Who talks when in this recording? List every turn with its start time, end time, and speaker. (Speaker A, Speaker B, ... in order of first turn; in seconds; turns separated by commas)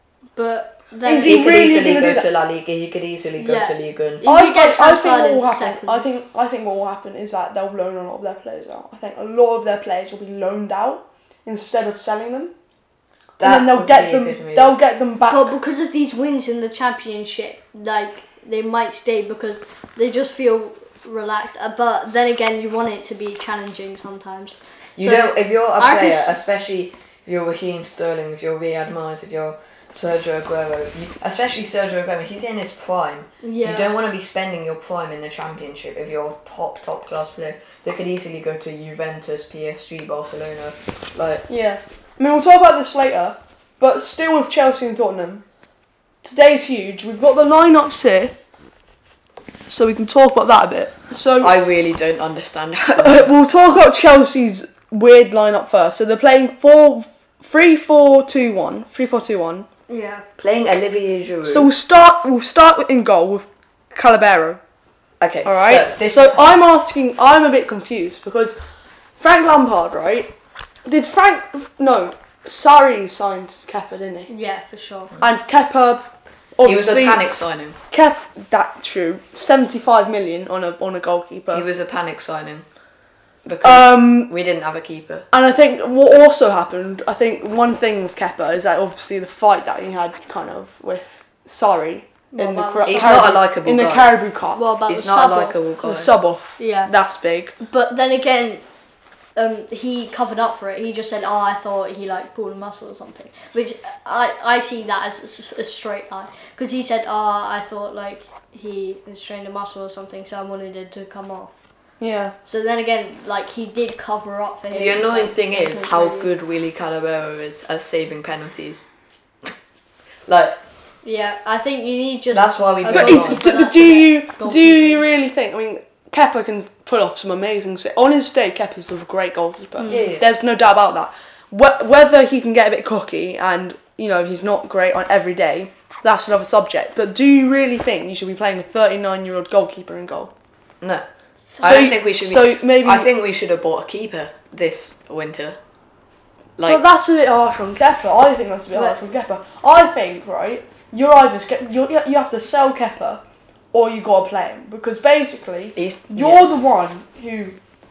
Speaker A: 0.3-1.7, Speaker B: 1.0-2.3, Speaker C: 1.1-4.2, Speaker A: 3.4-6.1, Speaker B: 4.2-12.5, Speaker C: 13.4-14.8, Speaker B: 13.4-15.5, Speaker A: 15.3-26.4, Speaker C: 25.0-41.4, Speaker A: 33.4-33.9, Speaker B: 41.5-45.4, Speaker B: 46.2-48.3, Speaker B: 49.7-51.5, Speaker C: 51.4-53.3, Speaker B: 53.0-59.7, Speaker A: 59.9-60.2, Speaker C: 60.4-61.7, Speaker B: 61.4-64.6, Speaker C: 65.2-66.6, Speaker B: 65.4-68.5, Speaker B: 69.2-70.3, Speaker B: 70.8-74.3, Speaker A: 74.3-75.1, Speaker B: 75.2-77.2, Speaker C: 76.6-77.8, Speaker B: 77.9-81.7, Speaker C: 81.5-82.6, Speaker C: 83.4-85.3, Speaker B: 83.6-84.3, Speaker B: 85.3-94.6, Speaker A: 92.3-93.2, Speaker C: 92.8-94.1, Speaker A: 94.5-95.5, Speaker C: 94.9-96.1, Speaker B: 95.8-97.5, Speaker A: 96.6-96.9, Speaker A: 97.6-98.6, Speaker A: 99.3-111.5, Speaker B: 112.0-112.3, Speaker A: 112.4-116.3, Speaker C: 114.7-118.9, Speaker C: 120.3-120.6, Speaker A: 121.0-125.0, Speaker C: 122.3-123.4, Speaker B: 122.9-140.3, Speaker A: 129.8-130.1, Speaker C: 129.9-130.3, Speaker C: 140.8-141.1, Speaker A: 141.6-141.8, Speaker C: 141.6-145.6, Speaker B: 141.6-143.1, Speaker B: 146.7-153.2, Speaker A: 148.7-149.0, Speaker B: 153.7-157.6, Speaker C: 155.8-156.5